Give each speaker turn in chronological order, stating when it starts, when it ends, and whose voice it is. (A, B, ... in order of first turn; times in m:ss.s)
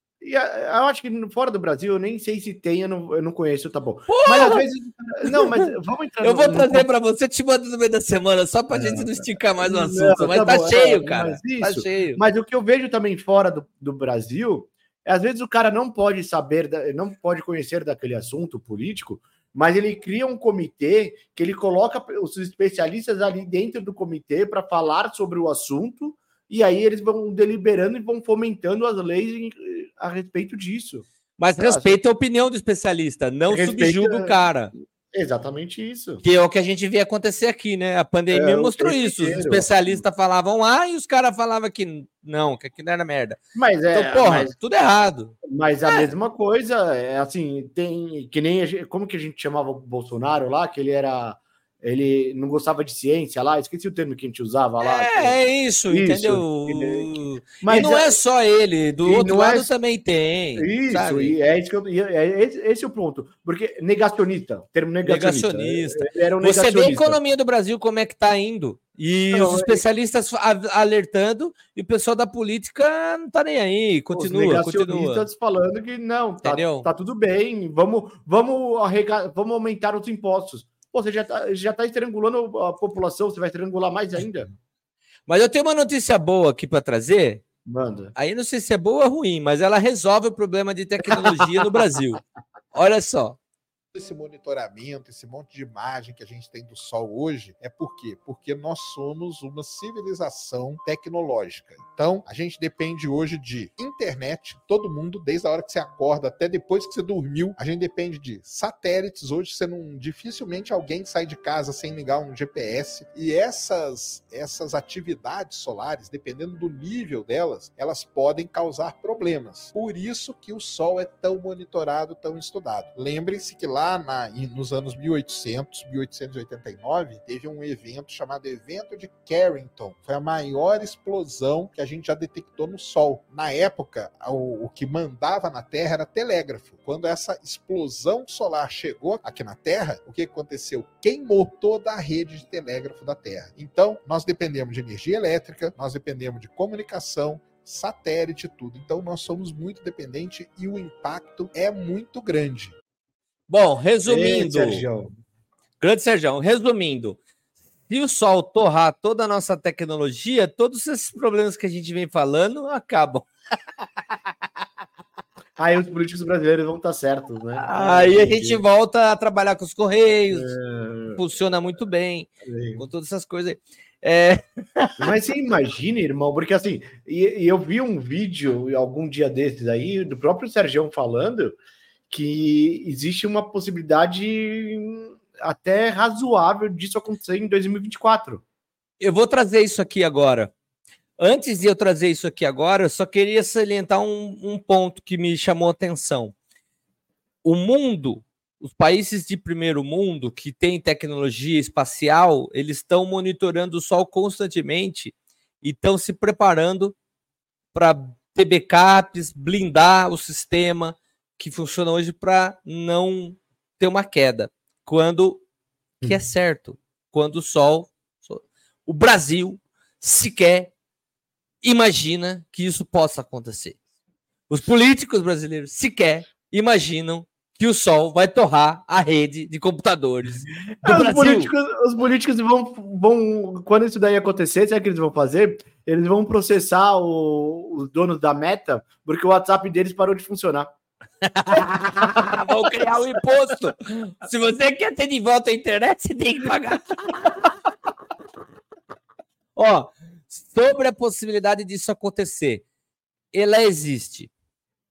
0:00.2-0:06.9 A
0:04.1-0:04.6 B
0:05.2-0:05.7 B
0:06.2-0:12.2 B
0:08.7-0:31.1 A
0:31.4-0:34.7 B
0:31.6-0:32.0 A
0:33.5-0:34.4 A
0:35.1-0:36.2 A
0:36.2-0:43.4 B
0:38.3-0:40.0 A
0:43.6-0:44.5 A
0:43.9-0:46.1 B
0:45.4-0:58.2 A
0:54.8-1:01.4 B
0:59.0-0:59.7 A
1:00.6-1:07.2 A
1:05.0-1:15.3 B
1:09.3-1:09.8 A
1:14.1-1:24.5 A
1:16.4-1:16.9 B
1:25.3-1:27.4 B
1:27.7-1:28.1 A
1:28.2-1:32.2 B
1:31.1-1:31.6 A
1:32.7-1:33.4 B
1:33.9-2:32.7 C
2:33.5-2:34.8 B
2:34.0-2:35.1 A
2:35.8-2:37.2 B
2:37.9-2:43.3 B
2:45.6-2:48.6 A
2:47.6-2:50.5 B
2:50.3-2:51.2 A
2:51.2-2:54.4 B
2:52.4-2:52.8 A
2:55.0-3:01.6 A
3:02.1-3:08.4 A
3:09.0-3:10.5 B
3:11.2-3:16.4 B
3:17.4-3:27.0 B
3:27.7-3:35.4 B
3:36.0-3:40.7 B
3:41.6-3:43.8 B
3:44.5-3:51.5 B
3:50.8-4:00.7 A
4:01.2-4:07.5 B
4:01.5-4:02.9 A
4:09.6-4:12.6 B
4:13.3-4:14.3 B